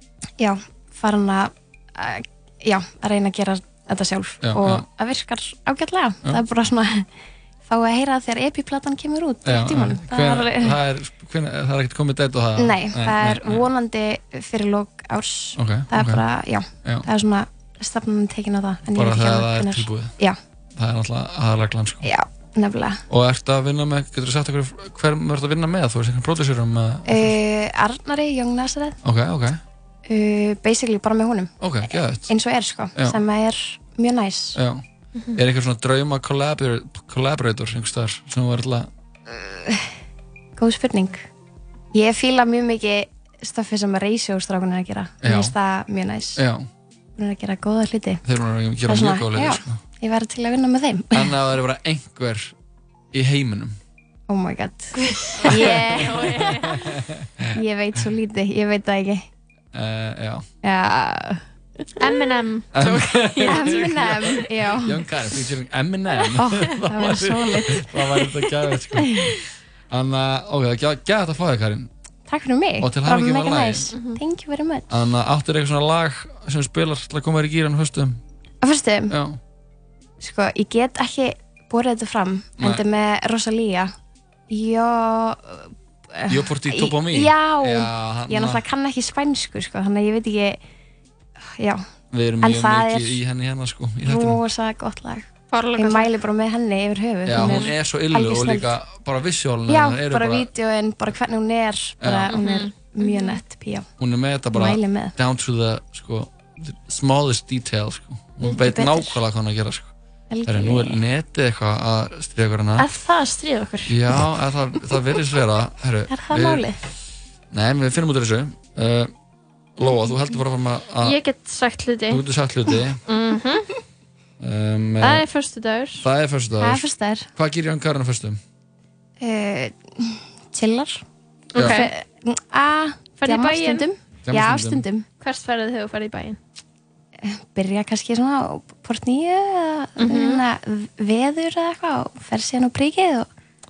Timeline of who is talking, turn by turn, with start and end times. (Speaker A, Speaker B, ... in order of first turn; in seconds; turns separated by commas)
Speaker A: 0.4-7.1, Speaker B: 4.4-4.8, Speaker A: 7.7-10.8, Speaker B: 9.4-13.7, Speaker A: 12.6-20.4, Speaker B: 15.6-16.2, Speaker B: 18.9-20.1, Speaker B: 20.7-22.1, Speaker A: 22.0-23.0, Speaker B: 23.1-27.4, Speaker A: 27.1-28.9, Speaker B: 29.0-29.6, Speaker A: 30.1-31.5, Speaker B: 31.6-32.3, Speaker A: 32.3-34.6, Speaker B: 34.5-34.8, Speaker B: 35.3-38.9, Speaker A: 39.3-39.9, Speaker A: 40.6-41.3, Speaker A: 41.9-46.4, Speaker B: 45.2-45.5, Speaker B: 46.4-46.6, Speaker A: 47.2-48.2, Speaker B: 48.2-49.8, Speaker A: 48.9-51.3, Speaker B: 51.1-52.5, Speaker B: 53.1-53.8, Speaker A: 54.3-56.5, Speaker C: 55.5-56.7, Speaker B: 56.8-57.5, Speaker A: 57.5-59.3, Speaker B: 59.7-60.4, Speaker A: 60.6-61.4, Speaker C: 62.0-63.9, Speaker B: 62.7-69.4, Speaker A: 63.4-65.1, Speaker C: 64.4-64.8, Speaker A: 66.3-68.3, Speaker A: 68.9-69.2, Speaker B: 69.9-71.9, Speaker A: 72.3-74.9, Speaker B: 72.8-73.9, Speaker C: 73.9-74.2, Speaker B: 74.9-78.2, Speaker A: 78.6-79.1, Speaker B: 79.1-79.4, Speaker A: 80.2-83.9, Speaker A: 84.5-90.6, Speaker B: 86.3-88.6, Speaker A: 91.6-91.8, Speaker B: 92.1-94.4, Speaker A: 92.4-93.2, Speaker A: 94.0-98.7, Speaker C: 95.5-96.1, Speaker B: 97.2-100.5, Speaker C: 97.4-97.7, Speaker A: 99.7-103.9, Speaker B: 102.0-102.3, Speaker C: 102.3-103.4, Speaker B: 104.0-109.9, Speaker A: 104.5-105.1, Speaker A: 108.4-109.2, Speaker A: 110.3-111.0, Speaker B: 110.5-112.8, Speaker C: 112.8-113.9, Speaker B: 113.9-116.7, Speaker A: 116.1-116.8, Speaker B: 117.5-119.1, Speaker B: 119.8-121.2, Speaker C: 121.0-122.2, Speaker B: 122.1-123.0, Speaker C: 123.1-123.7, Speaker B: 124.4-125.2, Speaker C: 125.0-126.0, Speaker B: 126.0-128.4, Speaker A: 126.6-127.3, Speaker A: 129.2-131.0, Speaker C: 131.5-131.9, Speaker A: 131.5-135.1, Speaker B: 131.6-131.8, Speaker C: 133.2-133.8, Speaker B: 134.2-134.8, Speaker C: 135.2-136.4, Speaker A: 137.2-143.3, Speaker C: 140.0-140.4